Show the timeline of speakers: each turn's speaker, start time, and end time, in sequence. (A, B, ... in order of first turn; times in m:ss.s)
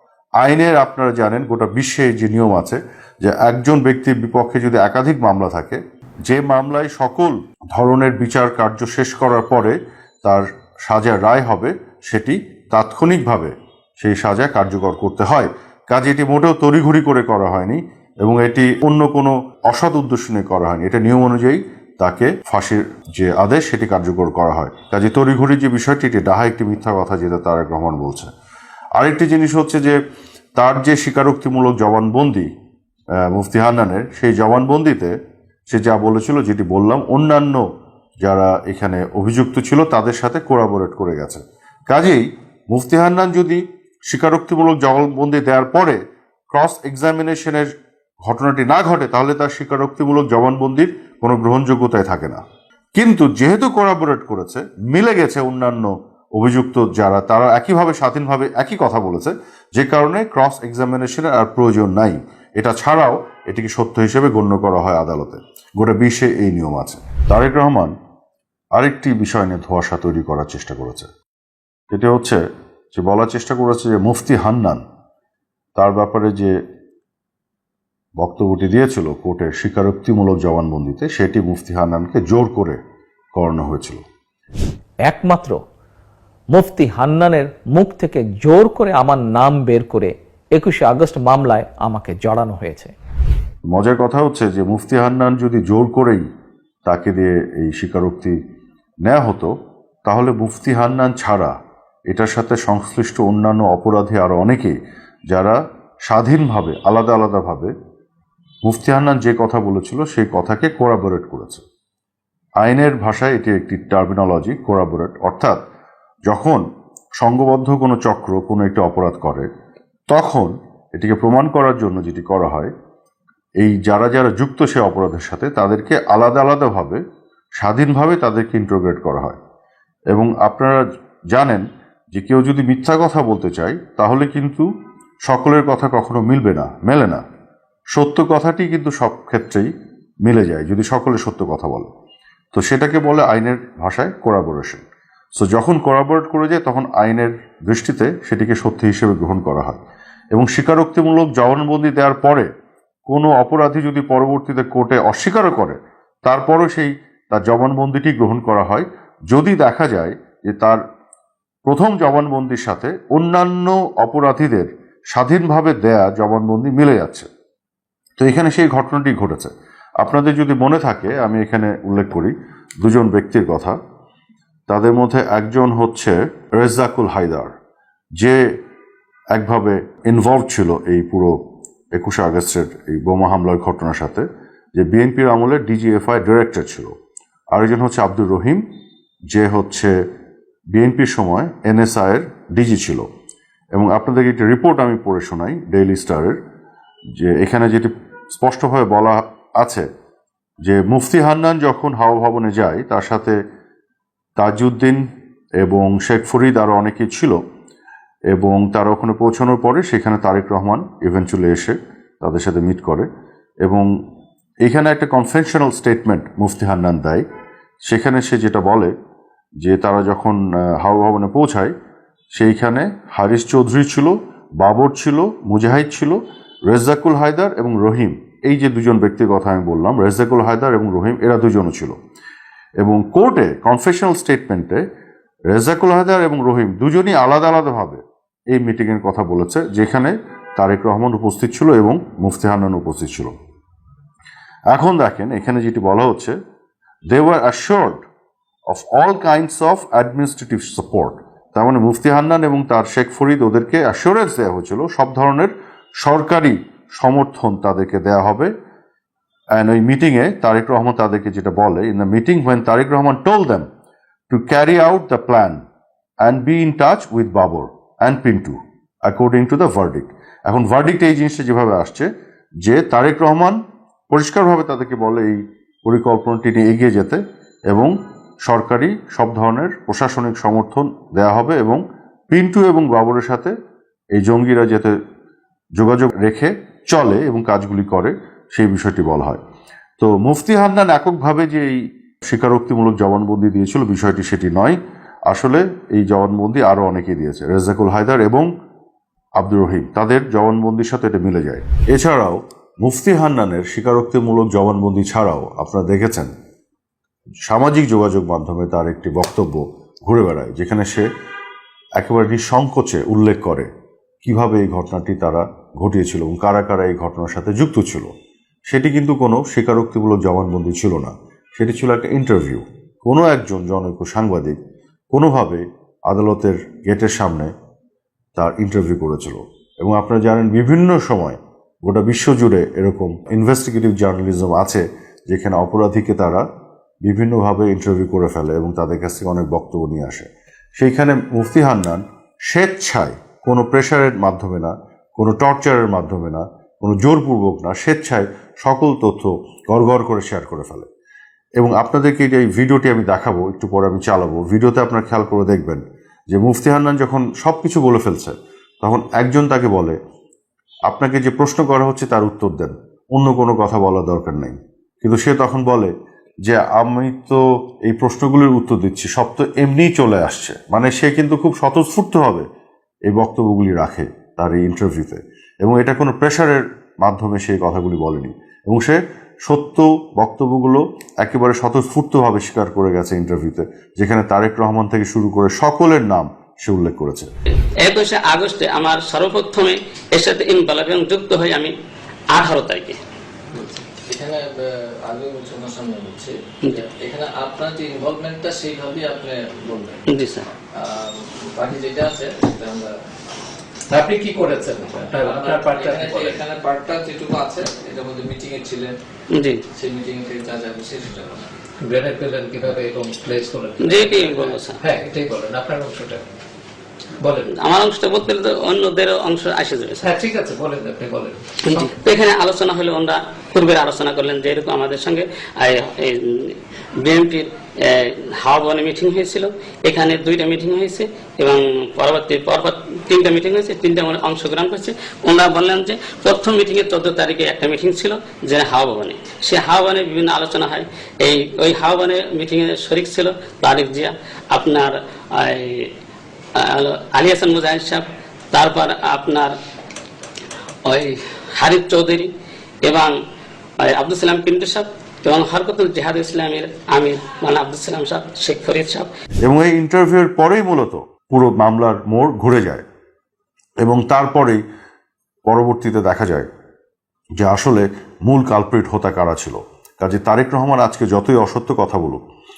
0:00.4-0:28.3 A
0:29.0-0:30.0 A
0:30.6-0:32.5 A
0:33.3-0:35.2 A
0:35.7-0:37.6 A
0:38.2-0:46.0 A
0:46.5-0:47.7 A
0:48.3-0:52.4 A
0:53.0-1:07.9 A
1:08.8-1:11.1 A
1:11.9-1:12.4 A
1:13.0-1:14.8 A
1:15.8-1:16.5 A
1:18.2-1:22.8 A
1:23.4-1:24.0 A
1:25.1-1:25.6 B
1:26.5-1:32.9 B
1:33.7-1:36.2 A
1:36.9-1:38.4 A
1:39.0-1:39.5 A
1:40.1-1:41.5 A
1:42.1-1:44.8 A
1:45.3-1:47.7 A
1:48.6-1:51.6 A
1:52.6-1:55.6 A
1:56.3-1:56.6 A
1:57.2-1:59.5 A
2:00.1-2:02.7 A
2:03.6-2:07.0 A
2:07.6-2:09.4 A
2:10.1-2:14.7 A
2:15.3-2:17.2 A
2:17.9-2:19.7 A
2:20.2-2:21.9 A
2:22.5-2:29.8 A
2:30.3-2:32.5 A
2:33.1-2:40.8 A
2:41.7-2:47.3 A
2:48.2-2:53.8 A
2:54.7-2:57.5 A
2:59.3-3:01.4 A
3:01.9-3:06.9 A
3:07.5-3:08.6 A
3:09.3-3:09.9 A
3:10.8-3:13.1 A
3:13.7-3:16.4 A
3:17.2-3:19.9 A
3:20.6-3:23.4 A
3:24.4-3:25.0 A
3:25.6-3:27.4 A
3:28.3-3:33.1 A
3:34.6-3:37.2 A
3:37.9-3:38.9 A
3:39.6-3:41.7 A
3:42.4-3:52.0 A
3:52.8-3:54.8 A
3:55.5-4:03.4 A
4:04.7-4:06.4 A
4:07.1-4:08.0 A
4:08.7-4:18.5 A
4:19.6-4:23.7 A
4:24.3-4:25.6 A
4:26.2-4:32.1 A
4:32.6-4:33.6 A
4:34.1-4:37.9 A
4:38.4-4:43.5 A
4:44.2-4:45.0 A
4:45.8-4:49.4 A
4:50.0-4:58.5 A
4:59.4-5:06.3 A
5:07.4-5:11.1 A
5:12.0-5:13.7 A
5:14.2-5:18.1 A
5:18.7-5:24.6 A
5:25.1-5:27.5 A
5:28.4-5:36.5 A
5:37.0-5:50.9 A
5:51.6-6:00.0 A
6:00.9-6:05.9 A
6:06.5-6:12.5 A
6:13.1-6:27.3 A
6:27.8-6:31.7 C
6:32.3-6:33.0 C
6:33.6-6:40.0 D
6:40.1-6:40.5 C
6:40.7-6:42.9 D
6:43.9-6:46.4 E
6:44.9-6:48.9 D
6:49.3-6:49.6 C
6:49.8-6:51.5 D
6:51.8-6:53.9 E
6:53.8-6:54.8 C
6:53.9-6:54.7 D
6:54.8-6:56.2 E
6:57.2-6:57.5 E
6:57.5-7:00.1 C
7:00.0-7:01.9 E
7:01.6-7:25.9 C
7:26.6-7:29.6 C
7:30.9-7:32.3 C
7:32.8-7:33.1 C
7:33.8-7:39.1 C
7:39.4-7:42.8 A
7:43.8-7:44.6 A
7:45.5-7:46.5 A
7:47.4-7:52.2 A